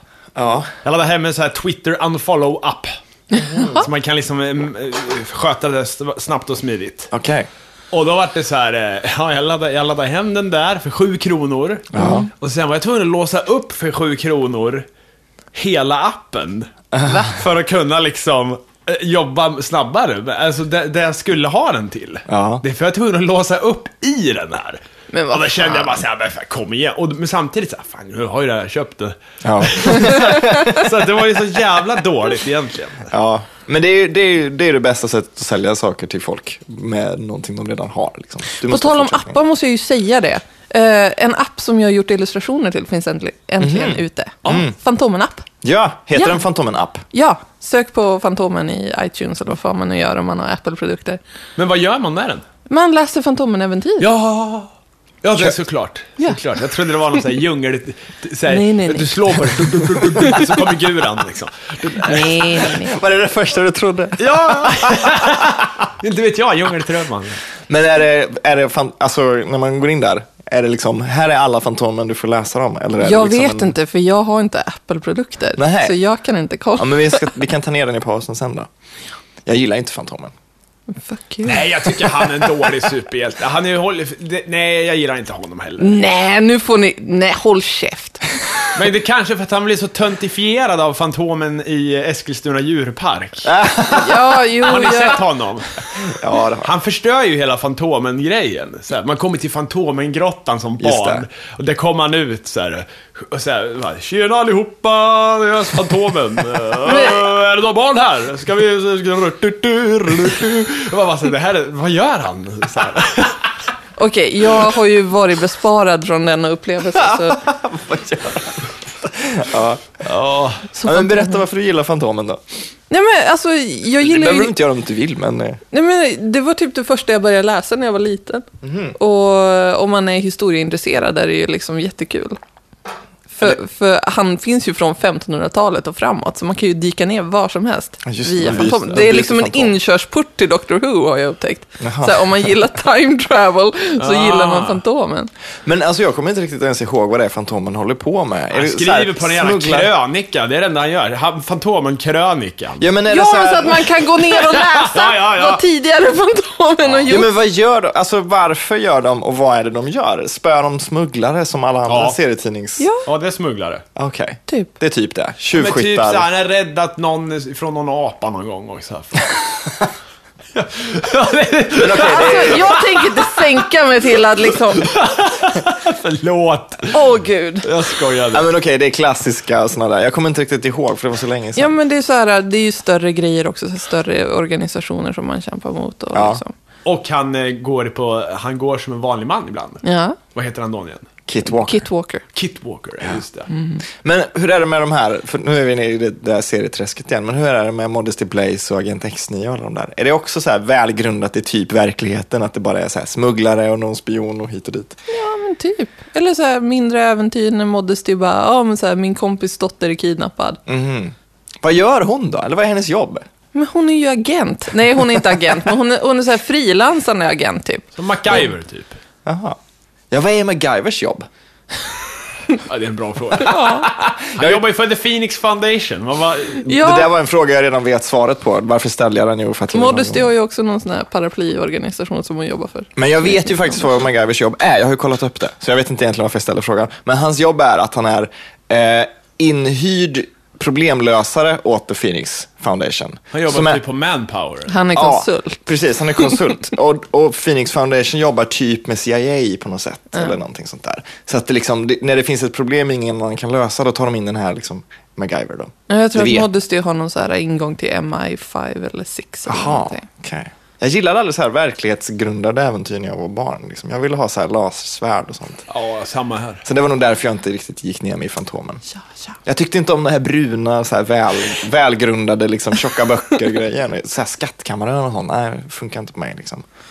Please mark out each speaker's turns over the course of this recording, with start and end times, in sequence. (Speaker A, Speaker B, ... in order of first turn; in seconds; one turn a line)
Speaker A: 0.4-0.7
Speaker B: 0.8-2.9
Speaker C: 3.3-3.9
Speaker B: 3.5-7.1
Speaker A: 7.1-7.5
Speaker B: 7.9-14.9
Speaker A: 11.9-12.3
Speaker C: 12.0-12.3
Speaker B: 15.5-16.7
Speaker C: 17.1-17.3
Speaker B: 17.3-33.1
Speaker A: 22.3-22.6
Speaker C: 25.1-25.5
Speaker A: 25.6-26.0
Speaker A: 29.4-30.9
Speaker C: 29.9-30.8
Speaker A: 33.1-39.4
Speaker C: 38.6-45.5
Speaker A: 43.6-44.7
Speaker A: 45.6-47.0
Speaker C: 46.1-46.4
Speaker C: 47.1-51.2
Speaker B: 51.6-52.4
Speaker C: 52.7-54.1
Speaker B: 54.0-54.7
Speaker B: 55.2-62.4
Speaker C: 58.5-59.5
Speaker C: 60.2-60.5
Speaker C: 62.0-63.0
Speaker A: 62.6-65.5
Speaker B: 64.2-67.4
Speaker A: 67.7-73.7
Speaker C: 73.0-77.3
Speaker A: 75.6-76.0
Speaker A: 76.8-78.7
Speaker A: 79.5-80.3
Speaker C: 80.9-82.1
Speaker B: 81.5-86.0
Speaker C: 85.8-88.2
Speaker B: 88.7-93.5
Speaker A: 93.5-94.2
Speaker C: 93.9-95.2
Speaker B: 94.6-96.1
Speaker A: 96.1-96.7
Speaker B: 96.6-113.5
Speaker A: 100.8-101.2
Speaker C: 106.9-107.2
Speaker C: 114.0-117.4
Speaker A: 117.0-120.0
Speaker B: 120.0-120.7
Speaker C: 120.8-121.4
Speaker A: 120.8-122.4
Speaker C: 122.9-124.5
Speaker A: 124.0-125.6
Speaker C: 125.7-128.4
Speaker A: 128.6-129.0
Speaker C: 129.0-132.4
Speaker C: 133.3-145.3
Speaker A: 138.1-139.7
Speaker B: 138.4-138.7
Speaker A: 141.8-142.4
Speaker B: 144.0-144.8
Speaker A: 145.7-149.9
Speaker B: 148.5-152.9
Speaker A: 152.8-153.9
Speaker C: 153.1-157.3
Speaker B: 154.3-155.6
Speaker B: 156.8-157.1
Speaker A: 157.1-162.9
Speaker B: 161.9-162.2
Speaker C: 162.8-163.1
Speaker B: 163.1-163.8
Speaker A: 164.0-166.3
Speaker B: 165.5-169.8
Speaker B: 170.5-173.5
Speaker A: 171.8-172.8
Speaker C: 172.0-174.9
Speaker B: 174.7-177.1
Speaker C: 176.9-177.7
Speaker B: 177.6-178.5
Speaker A: 178.3-181.7
Speaker C: 181.6-186.5
Speaker A: 186.1-186.4
Speaker B: 186.8-191.1
Speaker C: 189.8-190.2
Speaker A: 191.3-191.8
Speaker C: 191.4-192.2
Speaker B: 192.3-193.5
Speaker C: 193.5-193.8
Speaker A: 194.0-205.0
Speaker C: 205.1-210.6
Speaker A: 210.7-213.2
Speaker C: 213.5-217.9
Speaker B: 218.0-219.0
Speaker A: 219.2-219.6
Speaker A: 220.1-221.3
Speaker B: 222.6-226.8
Speaker C: 223.4-223.9
Speaker A: 224.3-224.6
Speaker C: 226.7-227.1
Speaker A: 226.7-230.2
Speaker C: 229.7-233.7
Speaker A: 233.0-243.8
Speaker B: 243.3-244.8
Speaker C: 244.7-245.6
Speaker A: 244.9-256.5
Speaker C: 255.9-260.1
Speaker A: 259.5-265.6
Speaker B: 265.7-266.6
Speaker A: 266.6-268.8
Speaker A: 269.5-276.6